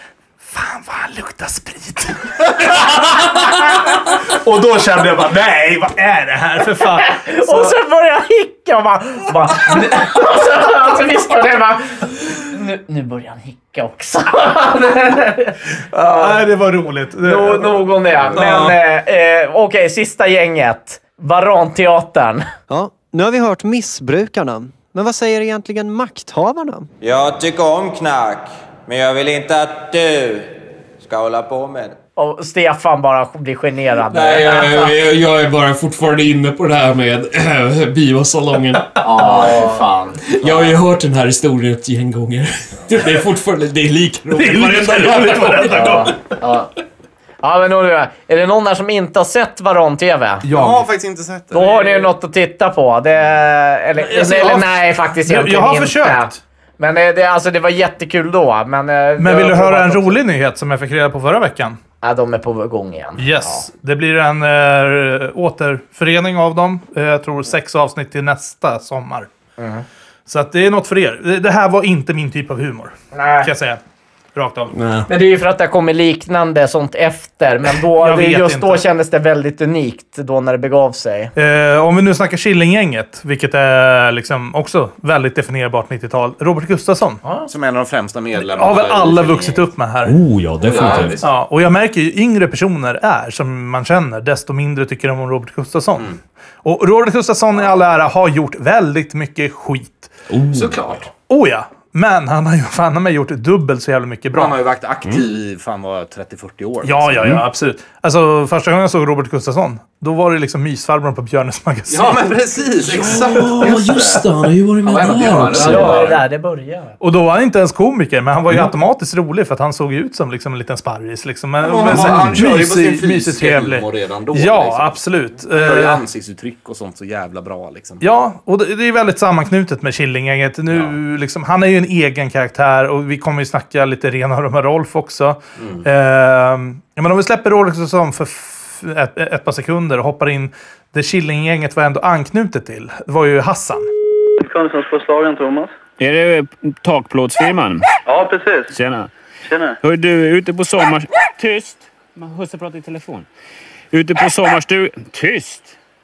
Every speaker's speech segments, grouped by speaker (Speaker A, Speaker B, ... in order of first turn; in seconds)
Speaker A: 0.4-7.7, 15.9-18.8, 44.3-46.2, 50.4-50.8, 51.5-52.1, 54.0-56.4, 59.2-61.8, 63.2-69.3, 70.3-73.8, 74.3-74.7, 78.0-78.8, 81.3-87.2, 88.3-90.1, 91.2-96.1, 96.6-100.1, 101.3-104.5, 106.8-112.3, 117.0-126.0, 128.0-143.9
Speaker B: 7.1-16.4, 17.2-22.4, 32.1-34.9, 39.2-39.8, 45.8-46.1, 47.4-50.4, 51.5-60.2, 62.0-63.6, 69.6-69.8, 73.1-73.5, 75.1-81.3, 114.9-116.9
Speaker C: 22.7-26.9
Speaker D: 27.0-30.5, 31.0-31.9
Speaker E: 34.1-39.5, 40.3-45.9, 74.7-75.1, 90.0-91.2, 100.3-100.8, 112.8-116.1, 121.9-122.3
Speaker F: 39.0-40.7, 46.4-46.7, 50.5-51.7, 87.5-89.7, 90.6-91.3, 100.5-101.1, 104.3-107.3, 111.9-114.2, 114.8-116.2, 121.6-125.0, 125.5-128.0, 135.6-135.9
Speaker G: 144.4-145.7, 148.1-148.7, 149.5-149.8
Speaker H: 146.0-147.8, 148.7-149.1, 149.8-153.2, 153.9-155.7